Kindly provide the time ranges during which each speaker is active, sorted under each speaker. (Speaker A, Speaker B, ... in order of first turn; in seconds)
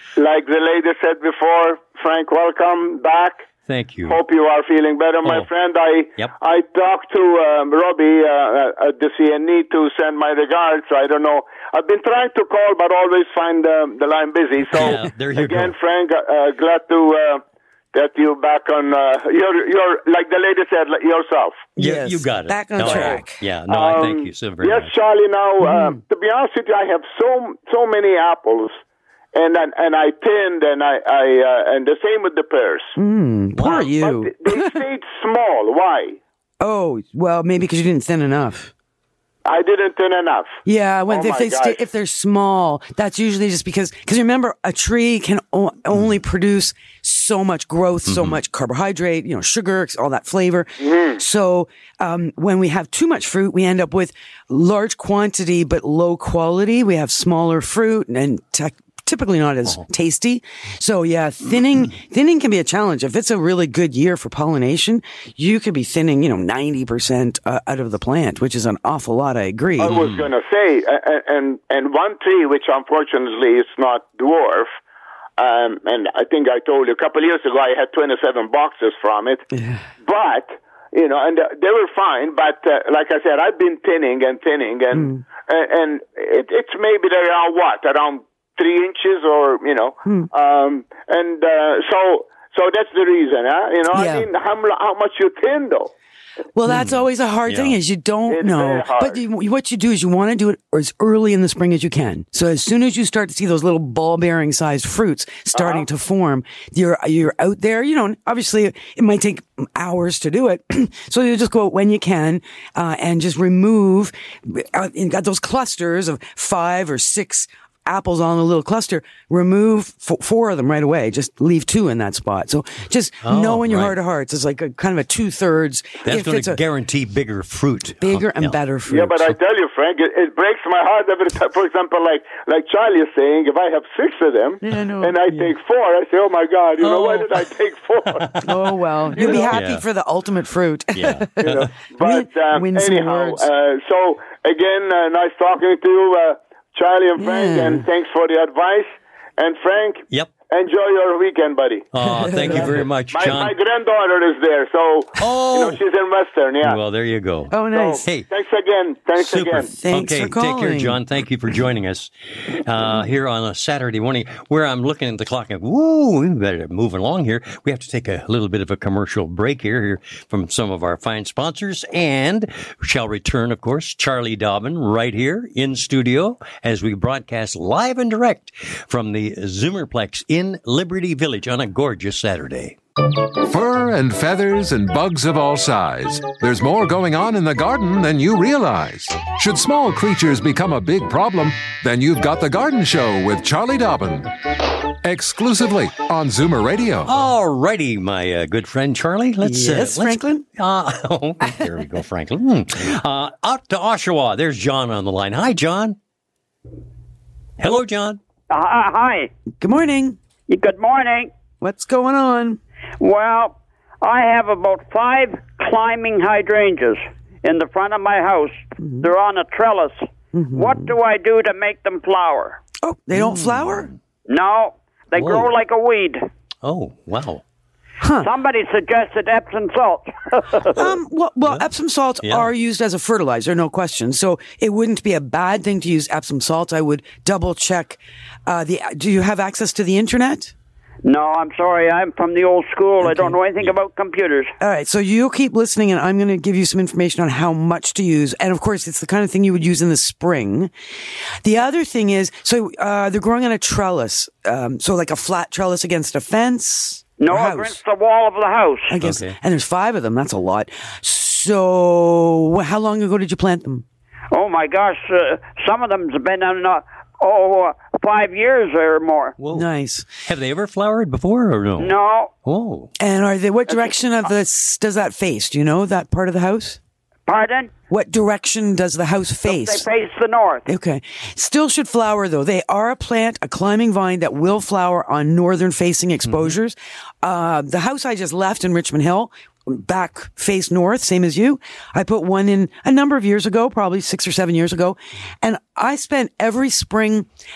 Speaker A: 0.2-3.4, 4.0-21.7, 22.8-23.2, 23.7-28.8, 29.3-32.9, 33.7-36.2, 39.4-41.8, 50.8-51.2, 69.8-74.7, 75.4-79.4, 80.0-95.9, 98.3-99.2, 105.5-105.9, 128.9-138.3, 139.1-139.5, 141.4-151.9, 153.1-156.8, 157.7-159.7
Speaker B: 3.7-4.2, 14.7-15.7, 21.8-24.9, 33.5-33.9, 48.1-48.4, 69.8-70.3, 96.7-97.8, 123.2-123.9, 126.0-128.6, 136.8-137.5, 138.0-139.8, 140.9-141.7, 151.9-153.6, 155.2-155.8, 156.6-158.3, 159.2-182.8, 197.1-206.0, 207.6-208.2, 223.1-223.9, 225.2-225.5, 226.6-227.4, 232.2-232.5, 259.0-259.3, 269.4-269.6, 270.2-272.9, 286.2-286.5
Speaker C: 21.8-23.4, 25.6-26.0, 33.0-34.8, 36.6-38.7, 40.6-70.0, 79.5-79.8, 84.9-85.2, 93.9-94.3, 96.5-126.6, 128.0-129.3, 134.6-135.2, 138.4-143.5, 147.2-147.8, 152.1-152.8, 157.5-158.0, 159.7-161.0, 199.4-200.4, 209.6-210.2, 211.6-212.6, 218.8-219.1, 220.3-220.9, 222.8-223.9, 228.0-228.3, 230.7-240.5, 243.0-243.4, 244.6-250.7, 251.4-257.8, 258.9-263.8, 269.5-270.1, 273.0-276.8, 277.9-279.9, 280.7-297.3
Speaker D: 183.4-194.3, 195.0-197.1
Speaker E: 208.5-209.3, 210.5-211.3, 213.0-222.6, 224.3-226.2, 228.2-230.9, 241.0-244.5, 257.2-258.9, 264.3-269.3, 271.8-272.3, 277.3-277.7, 279.5-280.7